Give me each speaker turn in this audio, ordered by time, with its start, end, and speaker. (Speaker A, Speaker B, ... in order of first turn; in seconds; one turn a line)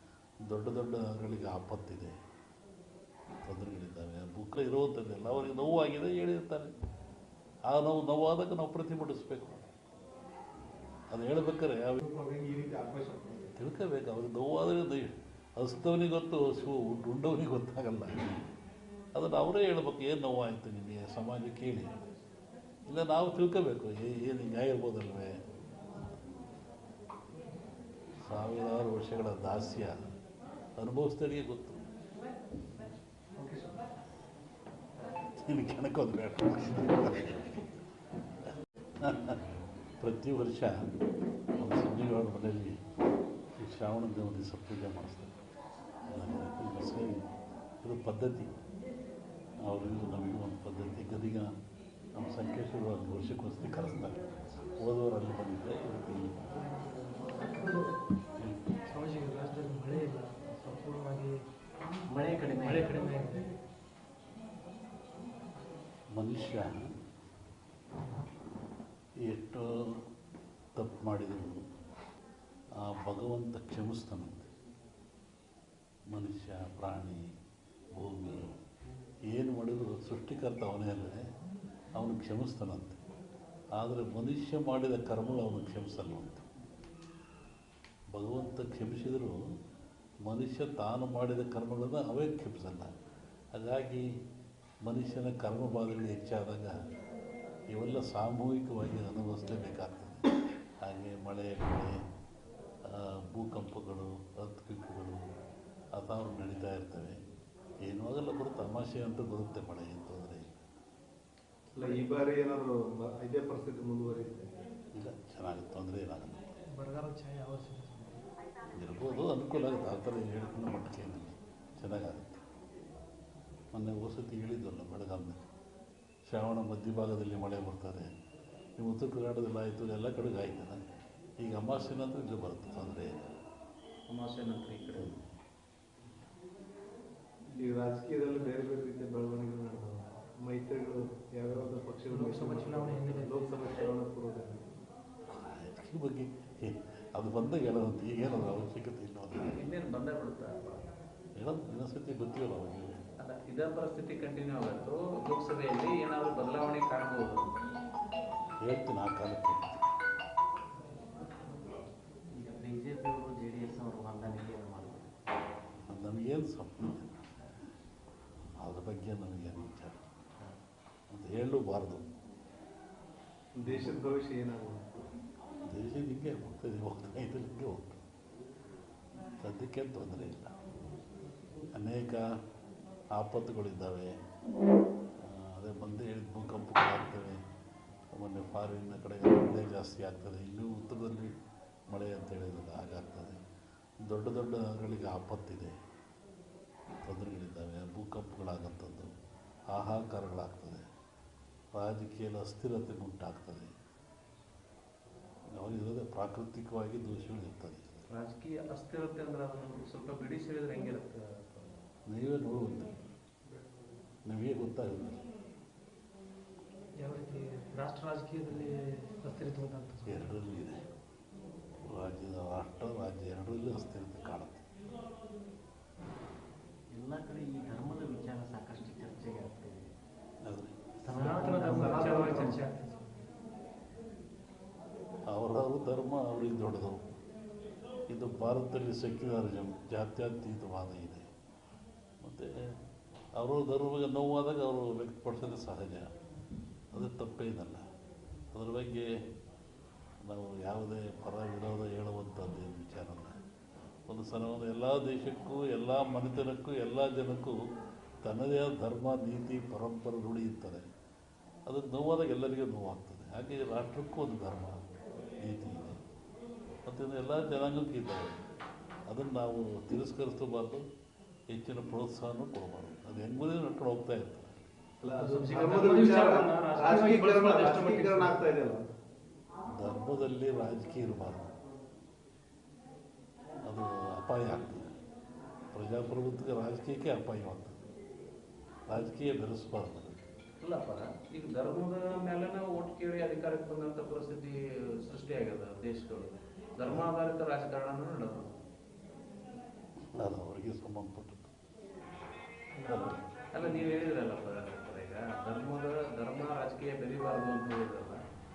Speaker A: 0.4-2.1
Speaker A: 3.4-6.7
Speaker A: 7.7-9.7
Speaker A: 11.1-12.0
Speaker B: 12.0-13.5
Speaker A: 13.6-18.4
Speaker A: 19.1-22.0
Speaker A: 22.9-25.4
Speaker A: 28.2-30.0
Speaker A: 30.8-31.8
Speaker C: 33.4-33.8
Speaker A: 35.4-37.7
Speaker A: 39.0-39.4
Speaker A: 40.0-40.7
Speaker A: 41.6-42.8
Speaker A: 43.6-45.3
Speaker A: 46.1-47.2
Speaker A: 47.8-48.5
Speaker A: 49.6-51.5
Speaker A: 52.2-54.2
Speaker A: 54.8-56.3
Speaker D: 56.5-57.8
Speaker D: 58.9-61.4
Speaker C: 62.1-63.0
Speaker D: 62.6-63.5
Speaker A: 66.2-66.8
Speaker A: 69.3-70.1
Speaker A: 70.8-71.7
Speaker A: 72.8-74.5
Speaker A: 76.1-77.3
Speaker A: 78.0-78.5
Speaker A: 79.3-81.2
Speaker A: 82.0-83.0
Speaker A: 83.8-86.5
Speaker A: 88.1-89.4
Speaker A: 90.2-92.9
Speaker A: 93.5-94.1
Speaker A: 94.8-96.8
Speaker A: 97.7-100.3
Speaker A: 100.8-102.0
Speaker A: 102.9-105.2
Speaker A: 106.0-107.2
Speaker A: 107.8-110.7
Speaker B: 111.8-114.5
Speaker A: 115.0-116.5
Speaker D: 116.7-118.2
Speaker A: 118.8-122.4
Speaker A: 123.7-125.5
Speaker A: 126.3-128.1
Speaker A: 128.8-130.8
Speaker A: 131.4-133.3
Speaker E: 134.1-135.1
Speaker B: 137.6-144.7
Speaker D: 142.1-143.6
Speaker A: 145.3-149.6
Speaker E: 149.6-150.9
Speaker A: 151.4-153.0
Speaker E: 153.2-157.6
Speaker A: 158.6-159.8
Speaker C: 162.4-165.1
Speaker A: 165.9-167.3
Speaker A: 168.6-170.0
Speaker A: 171.1-172.1
Speaker B: 173.6-174.9
Speaker A: 175.7-178.1
Speaker A: 179.4-180.6
Speaker A: 181.7-182.3
Speaker A: 183.2-184.2
Speaker A: 185.2-187.4
Speaker A: 188.1-191.3
Speaker A: 191.9-193.4
Speaker A: 194.0-195.7
Speaker A: 197.0-199.1
Speaker A: 199.7-200.8
Speaker A: 201.7-203.7
Speaker A: 205.5-208.0
Speaker E: 208.1-211.7
Speaker A: 212.1-213.1
Speaker A: 214.2-215.2
Speaker D: 217.0-220.4
Speaker A: 220.1-220.8
Speaker A: 221.8-224.7
Speaker C: 226.9-229.9
Speaker A: 230.4-230.8
Speaker C: 231.0-232.6
Speaker D: 231.1-233.3
Speaker B: 231.8-232.6
Speaker A: 235.3-237.0
Speaker A: 238.1-241.3
Speaker A: 242.2-242.8
Speaker A: 243.3-246.1
Speaker A: 246.9-247.8
Speaker A: 248.5-249.1
Speaker A: 250.2-253.4
Speaker A: 254.1-257.6
Speaker A: 258.2-260.9
Speaker A: 261.7-264.8
Speaker A: 265.4-266.0
Speaker A: 266.9-268.4
Speaker A: 269.1-270.9
Speaker A: 271.5-274.7
Speaker B: 275.0-278.8
Speaker D: 275.2-278.4
Speaker A: 279.7-281.6
Speaker A: 283.7-284.9
Speaker A: 285.7-287.8
Speaker A: 288.9-290.2
Speaker E: 290.6-298.5
Speaker A: 300.1-301.5
Speaker A: 302.9-303.2
Speaker D: 302.9-303.2
Speaker E: 303.5-308.2